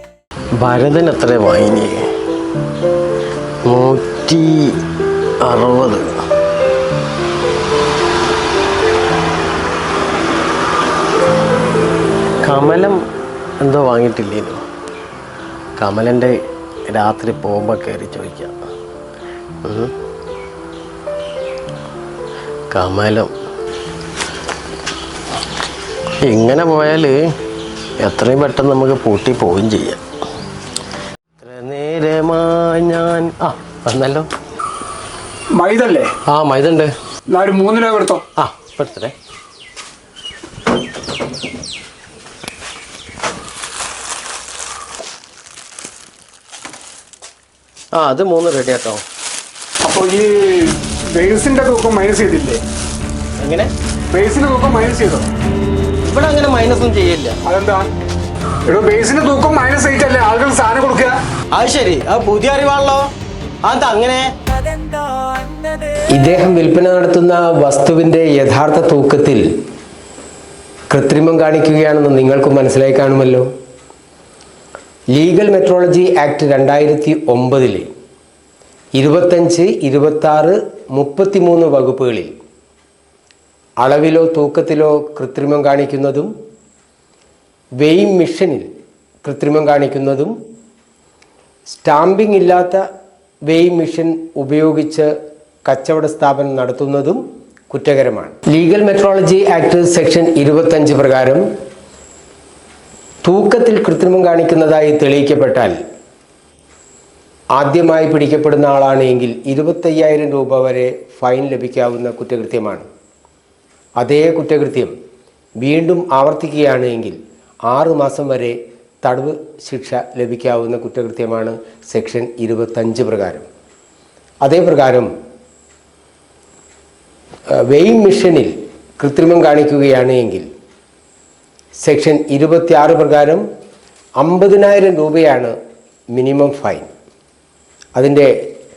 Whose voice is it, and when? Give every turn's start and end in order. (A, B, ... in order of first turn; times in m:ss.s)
0:00.6-0:02.1 A
0:03.6-0:04.8 A
0:05.4-0:06.2 A
0:12.4-0:13.0 A
0:13.6-0:14.6 A
0:15.8-0:16.4 A
0:16.9-0:18.6 A
0:19.6-0:19.9 A
0:22.7-0:23.3 A
0:26.2-0:27.4 A
0:28.0-0:30.0 A
0:31.4-0:34.3 A
0:35.5-0:36.1 B
0:36.3-0:36.9 A
0:37.3-0:38.2 B
0:38.4-0:39.1 A
0:47.9-0:49.0 A
0:49.8-0:52.6 B
0:53.4-0:53.7 A
0:54.1-0:55.2 B
0:56.0-0:57.4 A
0:57.4-0:57.9 B
0:58.6-1:01.2 B
1:01.5-1:03.1 A
1:03.6-1:04.3 A
1:04.8-1:05.8 B
1:06.1-1:09.4 C
1:10.9-1:13.5 C
1:15.1-1:17.9 C
1:18.9-1:22.3 C
1:23.8-1:26.3 C
1:27.8-1:28.7 C
1:29.2-1:30.4 C
1:31.7-1:32.8 C
1:33.5-1:35.1 C
1:35.6-1:41.4 C
1:43.2-1:45.8 C
1:47.6-1:52.9 C
1:54.0-1:54.9 C
1:55.6-1:57.2 C
1:57.7-2:03.4 C
2:04.4-2:05.1 C
2:07.6-2:10.5 C
2:11.8-2:13.4 C
2:14.2-2:15.5 C
2:16.1-2:16.9 C
2:18.0-2:18.3 C